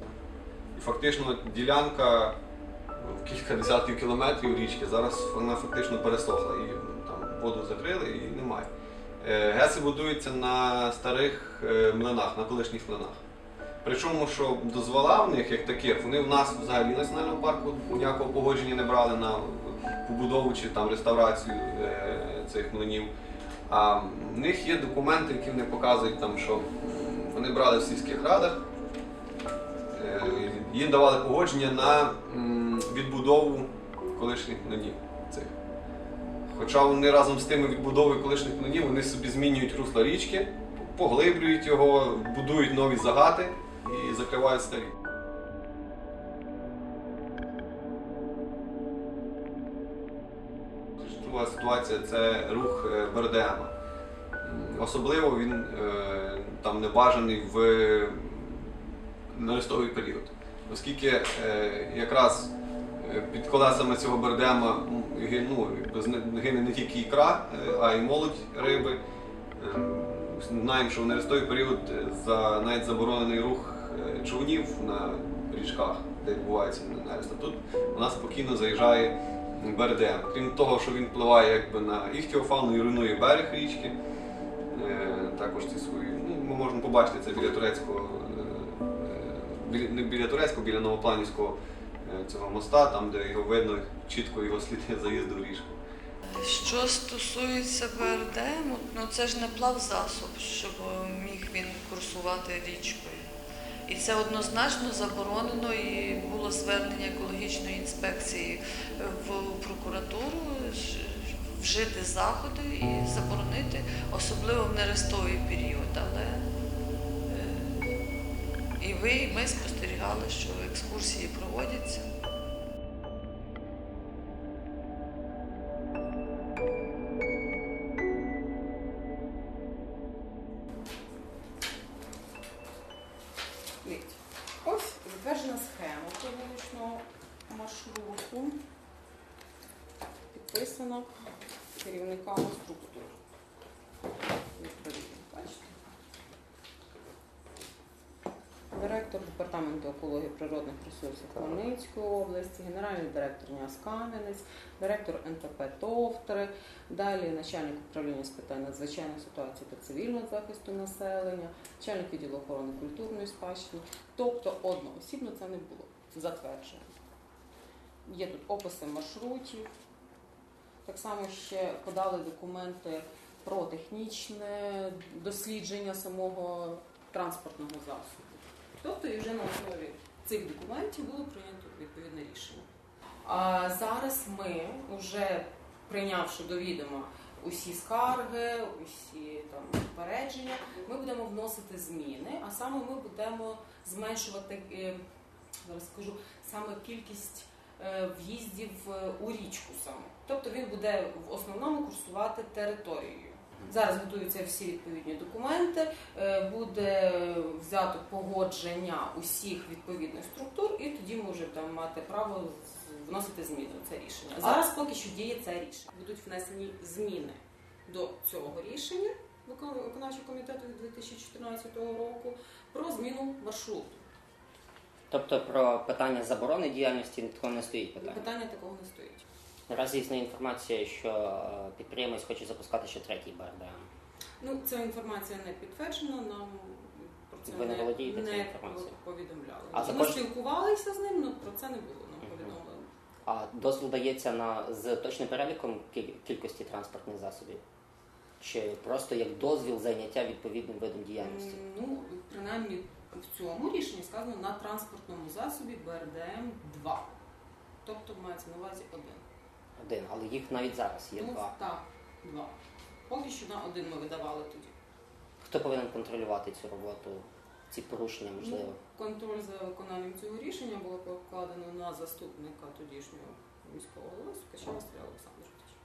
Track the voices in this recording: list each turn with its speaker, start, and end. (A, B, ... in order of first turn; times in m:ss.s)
0:00.7-0:02.4 A
0:03.0-0:08.7 A
0:09.2-0:13.2 A
0:13.8-0:23.1 A
0:23.7-0:28.6 A
0:29.9-0:35.5 A
0:36.4-0:44.9 A
0:51.0-0:53.7 A
0:54.4-1:09.0 A
1:09.6-1:24.0 A
1:24.7-1:35.8 A
1:36.3-1:43.3 B
1:43.9-1:56.4 B
1:57.3-1:57.9 B
1:58.8-2:02.1 B
2:13.8-2:18.6 C
2:20.3-2:21.1 C
2:21.7-2:23.1 C
2:24.6-2:25.7 C
2:28.7-2:46.9 C
2:48.0-2:49.7 C
2:50.8-3:02.7 C
3:03.2-3:15.0 C
3:15.6-3:44.0 C
3:45.1-3:48.2 D
3:48.0-3:49.2 C
3:49.7-3:53.9 D
3:54.4-4:02.9 C
3:57.4-3:59.0 D
3:59.7-4:00.2 D
4:02.2-4:02.5 D
4:03.2-4:07.6 D
4:08.4-4:11.6 D
4:11.2-4:17.1 C
4:17.8-4:19.2 C
4:19.8-4:21.5 D
4:21.1-4:22.6 C
4:23.1-4:24.7 C
4:25.4-4:28.8 D
4:28.4-4:35.8 C